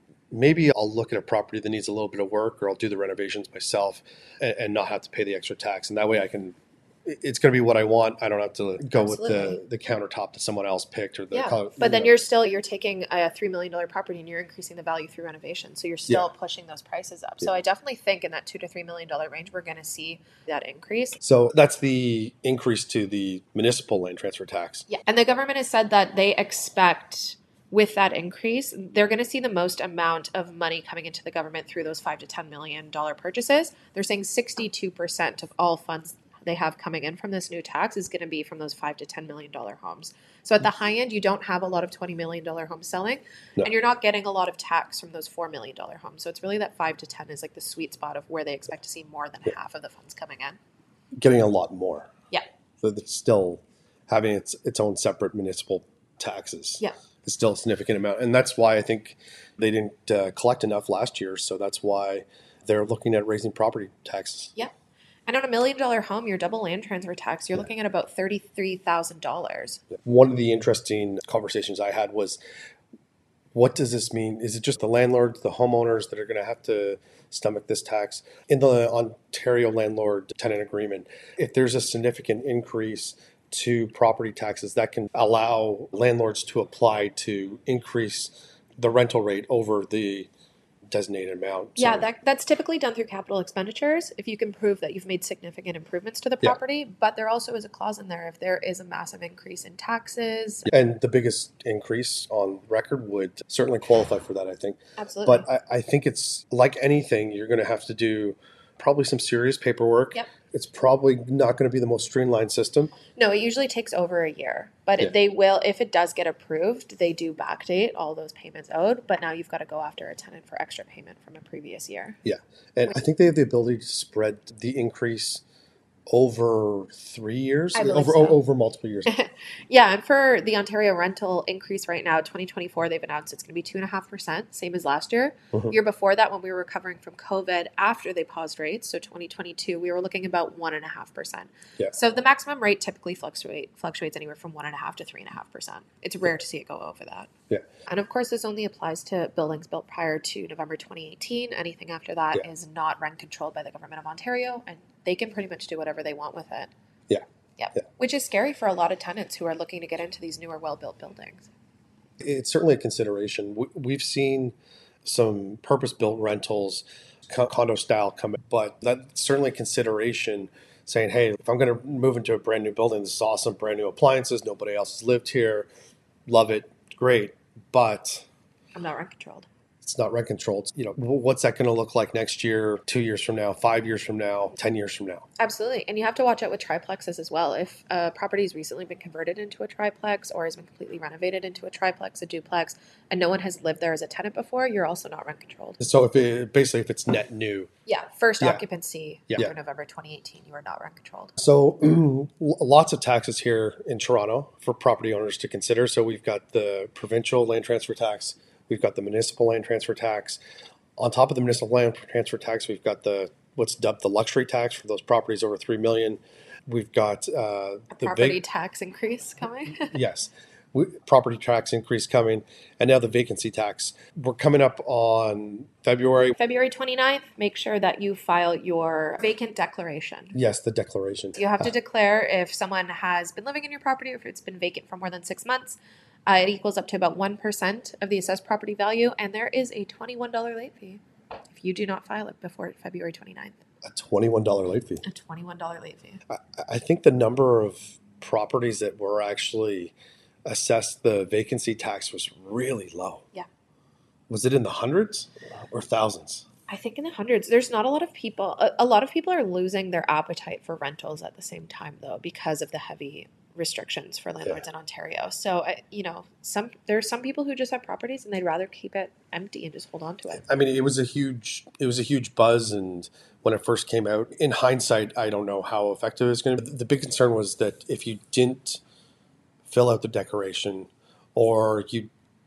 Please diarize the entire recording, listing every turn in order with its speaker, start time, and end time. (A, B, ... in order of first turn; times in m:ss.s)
0:00.3-0:12.1 A
0:08.9-0:09.6 B
0:11.3-0:21.2 B
0:21.2-0:24.9 A
0:24.9-0:50.6 B
0:51.2-0:52.1 A
0:52.8-1:04.5 A
1:05.2-1:09.8 B
1:10.0-1:12.4 A
1:13.5-1:30.3 A
1:30.9-1:32.1 A
1:31.8-1:40.7 B
1:40.7-1:52.9 A
1:45.0-1:45.5 B
1:53.1-2:02.2 B
2:02.2-2:05.4 A
2:06.1-2:09.1 A
2:07.7-2:08.4 B
2:09.1-2:27.3 B
2:27.9-2:36.7 B
2:37.6-2:41.5 B
2:42.2-2:44.5 A
2:45.0-2:55.7 A
2:56.3-2:58.2 A
2:58.7-2:59.4 B
2:59.8-3:05.2 A
3:05.4-3:15.8 B
3:15.8-3:17.7 A
3:17.8-3:21.4 B
3:21.4-3:30.4 A
3:31.0-3:38.4 A
3:37.9-3:39.9 B
3:39.7-3:46.3 A
3:46.4-3:50.3 B
3:50.3-3:51.6 A
3:51.4-4:01.0 B
4:01.5-4:03.6 B
4:03.8-4:05.0 A
4:05.0-4:06.2 B
4:06.3-4:09.9 A
4:10.4-4:13.2 A
4:14.3-4:16.4 A
4:16.7-4:30.4 B
4:30.4-4:38.8 A
4:39.7-4:42.1 A